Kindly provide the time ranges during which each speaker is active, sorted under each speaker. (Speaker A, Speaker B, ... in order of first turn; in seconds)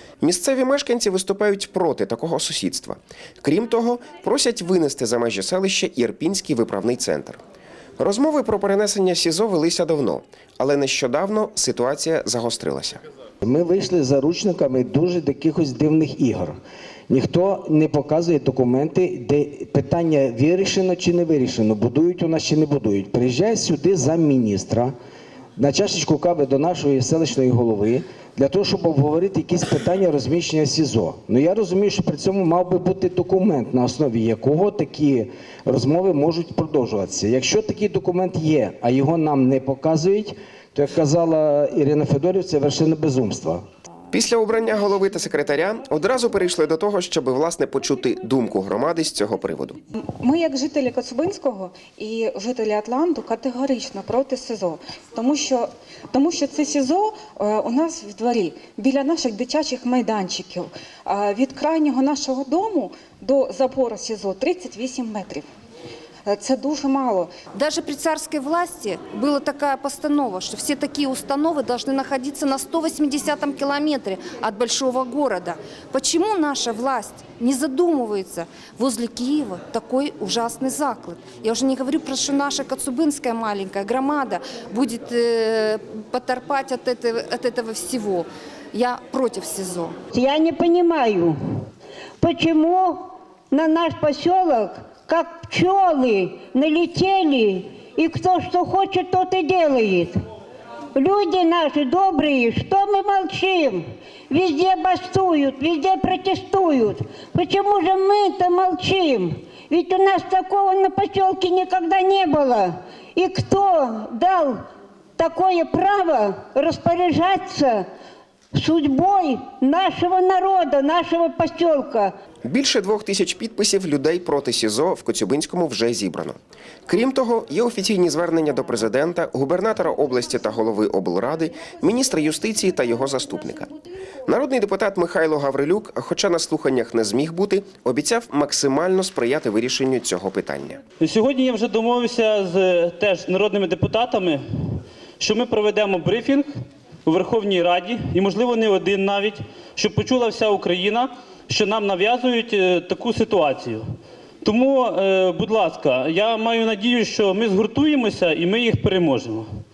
Speaker A: 0.2-7.4, 8.0-13.0, 44.1-49.8, 122.4-126.4, 126.9-133.8, 134.3-140.8
Speaker B: 13.4-16.6, 17.1-24.9, 25.6-43.6
Speaker C: 50.2-65.5, 66.3-67.3
Speaker D: 67.5-90.0
Speaker E: 90.1-91.4, 92.2-100.2, 101.0-114.6, 115.2-117.9, 118.5-122.1
Speaker F: 141.0-144.4, 145.2-146.5, 147.1-153.8, 154.4-159.5